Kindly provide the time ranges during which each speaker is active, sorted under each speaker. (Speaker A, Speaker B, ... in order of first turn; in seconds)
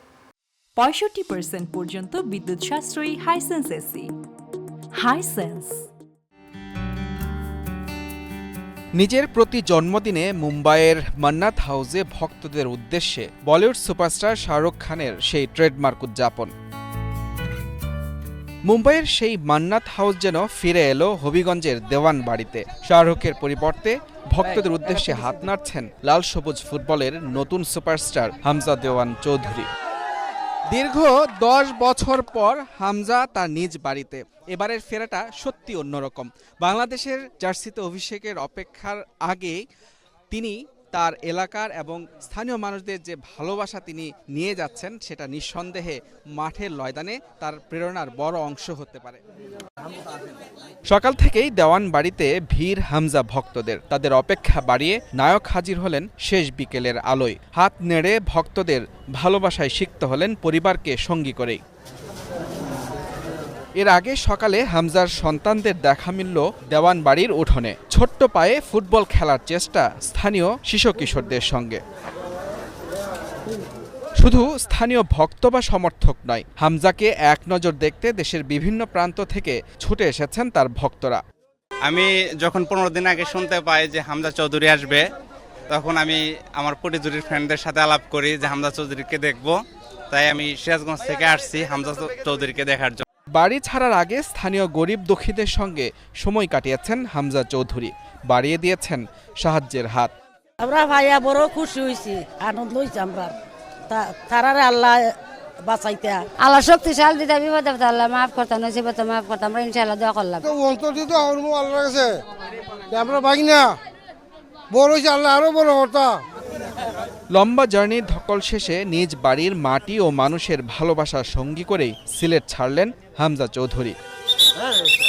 Speaker A: 0.8-4.1, 4.9-5.9
Speaker B: 9.0-16.5, 18.6-29.7, 30.7-39.6, 40.3-49.2, 50.9-61.6, 63.8-71.8, 74.2-81.2, 93.3-100.1, 117.3-124.0
Speaker C: 81.8-85.1, 85.7-89.6, 90.1-93.0
Speaker D: 100.6-103.3, 103.9-106.2
Speaker E: 106.4-110.5
Speaker F: 110.5-112.2, 112.9-113.8, 114.7-116.2